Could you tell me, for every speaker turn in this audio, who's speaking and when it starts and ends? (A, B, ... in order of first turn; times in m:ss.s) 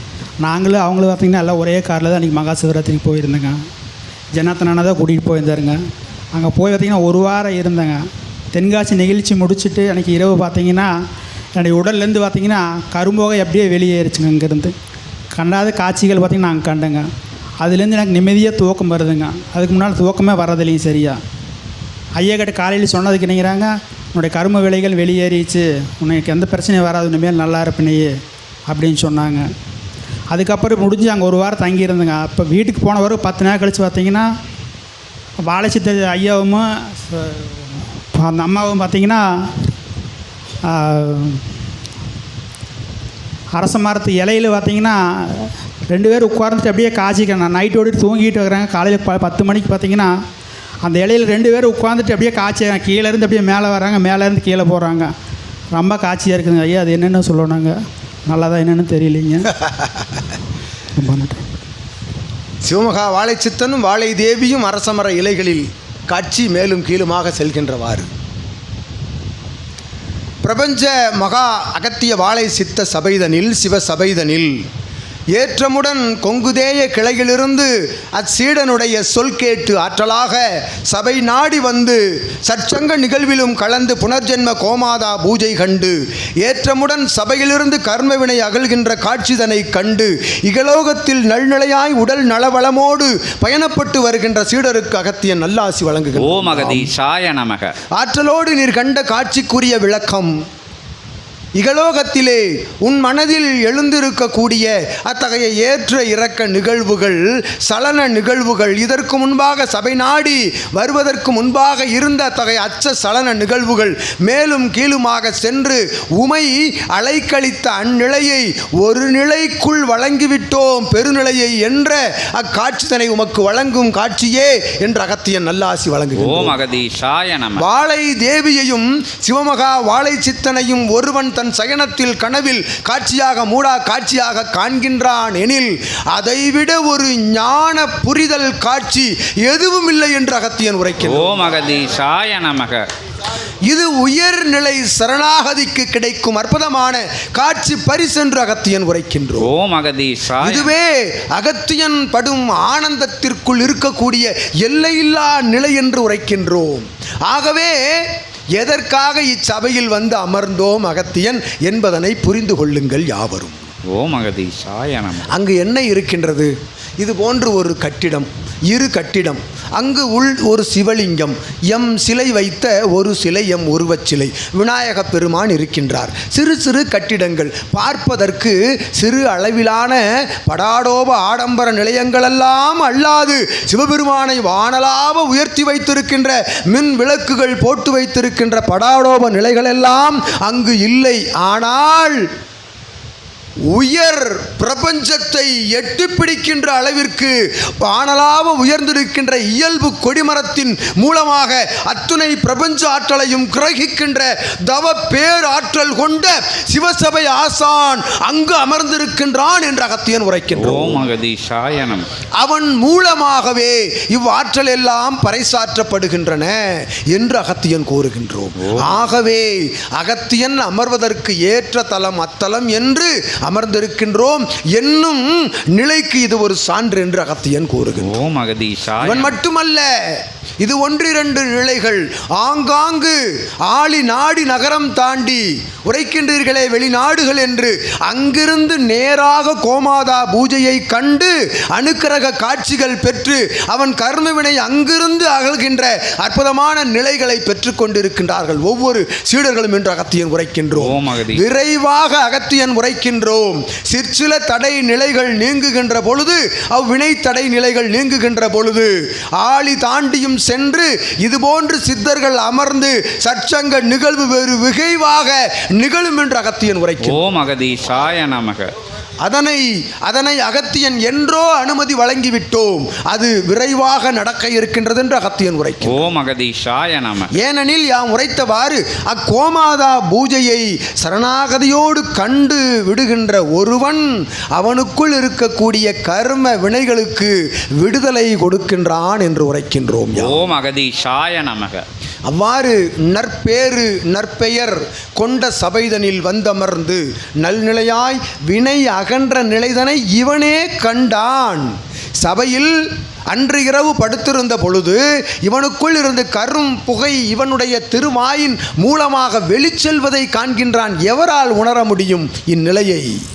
0:00.4-0:03.6 A
0:04.3-0:05.8 A
0:06.3-0:08.0 A
0:08.5-0:10.9 A
0:11.6-0:14.7 A
0:15.3-0:17.0 A
0:17.6-0:21.2 A
0:22.2-0:28.1 A
0:28.7-0:29.5 A
0:30.3-0:34.3 A
0:35.5-0:39.5 A
0:40.6-0:41.4 A
0:43.6-0:50.1 A
0:50.8-0:55.1 A
0:55.7-0:57.7 A
0:58.3-0:59.5 A
0:59.6-1:00.0 B
1:00.9-1:01.4 A
1:02.6-1:08.1 B
1:10.4-1:14.6 B
1:15.3-1:36.9 B
1:36.2-1:37.8 C
1:37.9-1:40.4 B
1:41.6-2:06.6 B
2:06.2-2:07.6 C
2:07.6-2:21.4 B
2:21.0-2:22.8 C
2:23.7-2:29.5 B
2:29.4-2:30.7 C
2:30.4-2:43.6 B
2:43.9-2:45.3 C
2:45.3-3:12.2 B
3:13.7-3:31.0 B
3:30.5-3:32.0 C
3:32.4-3:48.1 B
3:38.6-3:39.1 C
3:48.0-3:49.3 C
3:49.0-4:27.2 B
4:10.8-4:11.4 C
4:27.0-4:28.7 C
4:29.2-4:36.0 B
4:35.8-4:37.3 C
4:37.3-4:50.4 B
4:50.1-4:51.8 C
4:52.3-5:02.7 B
5:03.3-5:13.1 B